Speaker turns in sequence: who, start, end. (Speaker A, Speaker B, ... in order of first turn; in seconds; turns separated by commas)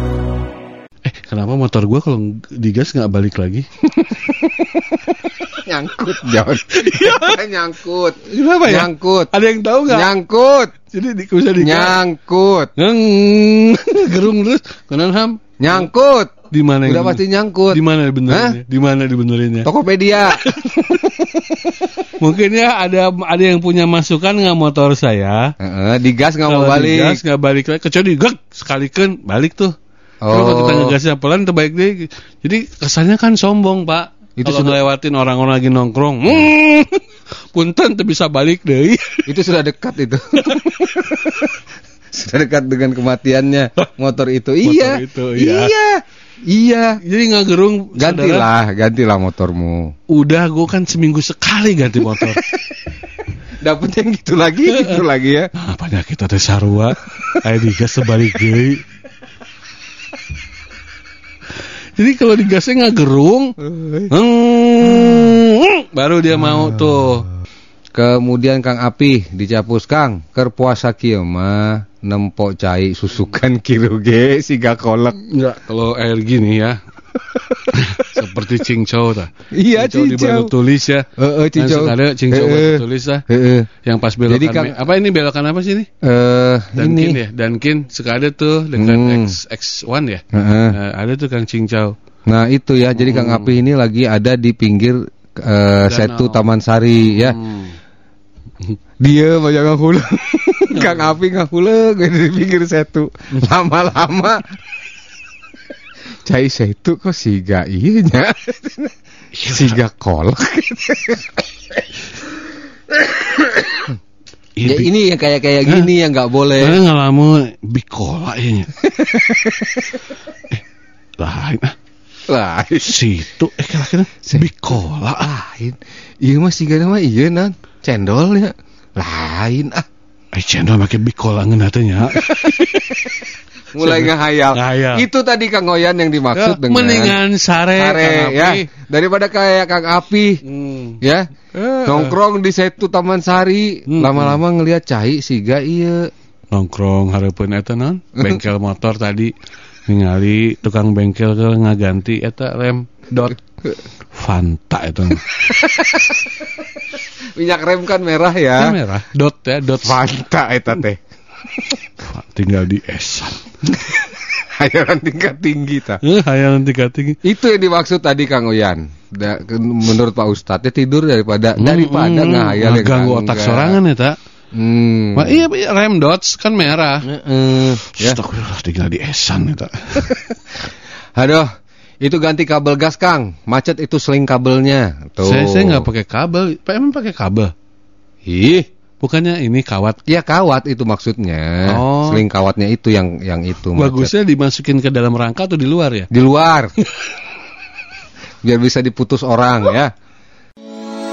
Speaker A: 1.0-3.7, Speaker B: 5.5-9.3, Speaker A: 6.7-7.4, Speaker A: 8.2-10.1, Speaker B: 9.9-10.7, Speaker A: 10.9-12.0, Speaker B: 11.6-12.7, Speaker A: 12.8-15.9, Speaker B: 15.6-18.6, Speaker A: 16.5-19.7, Speaker B: 19.6-21.6, Speaker A: 20.3-20.6, Speaker A: 22.2-25.5, Speaker B: 25.6-27.2, Speaker A: 26.4-29.7, Speaker B: 30.2-31.0, Speaker A: 30.3-37.0, Speaker B: 34.4-34.8, Speaker A: 37.5-39.4, Speaker B: 39.3-41.5, Speaker B: 42.1-47.0, Speaker A: 44.6-45.7, Speaker A: 47.0-48.5, Speaker B: 48.0-49.9, Speaker A: 50.1-52.4, Speaker B: 53.6-55.5, Speaker A: 54.7-58.8, Speaker B: 57.1-57.4, Speaker A: 62.0-63.5, Speaker B: 63.6-64.1, Speaker A: 64.1-67.3, Speaker B: 67.9-75.2, Speaker A: 75.2-76.8, Speaker B: 77.3-78.0, Speaker A: 77.7-83.2, Speaker B: 79.5-80.5, Speaker B: 81.2-83.7, Speaker A: 83.8-85.9, Speaker B: 84.3-84.8, Speaker B: 86.0-87.2, Speaker A: 86.8-92.0, Speaker B: 88.8-89.4, Speaker B: 90.3-90.8, Speaker B: 92.3-97.4, Speaker A: 93.0-93.6, Speaker A: 95.8-96.5, Speaker A: 97.2-97.8, Speaker B: 99.0-104.5, Speaker A: 100.7-101.2, Speaker B: 106.2-108.9, Speaker A: 109.4-109.8, Speaker B: 109.5-111.4, Speaker A: 114.6-114.9, Speaker B: 114.6-116.8, Speaker A: 116.5-118.7, Speaker B: 118.8-120.0, Speaker A: 121.2-121.7, Speaker B: 122.3-123.0, Speaker A: 122.8-125.3, Speaker B: 124.3-129.8, Speaker A: 130.3-133.2, Speaker B: 132.2-132.7, Speaker B: 133.8-137.2, Speaker A: 133.8-135.1, Speaker A: 136.3-138.7, Speaker B: 137.7-140.4, Speaker A: 140.4-141.0, Speaker B: 141.0-141.3, Speaker A: 141.5-142.2, Speaker B: 141.8-146.1, Speaker A: 143.9-144.4, Speaker A: 146.5-149.3, Speaker A: 149.9-153.4, Speaker A: 154.1-155.5, Speaker B: 155.4-156.3, Speaker B: 157.3-158.8, Speaker A: 158.6-160.0, Speaker B: 159.7-161.0, Speaker A: 162.0-163.5, Speaker B: 163.7-166.0, Speaker A: 166.0-167.2, Speaker B: 167.2-173.8, Speaker A: 171.6-174.2, Speaker B: 174.5-175.4, Speaker A: 175.2-177.1, Speaker B: 177.0-178.2, Speaker A: 177.7-180.2, Speaker B: 181.2-181.5, Speaker B: 182.0-185.9, Speaker A: 185.2-187.5, Speaker B: 188.3-188.7, Speaker A: 189.0-190.0, Speaker B: 190.1-194.1, Speaker A: 191.7-192.2, Speaker A: 193.7-196.1, Speaker B: 196.1-196.7, Speaker B: 198.4-199.9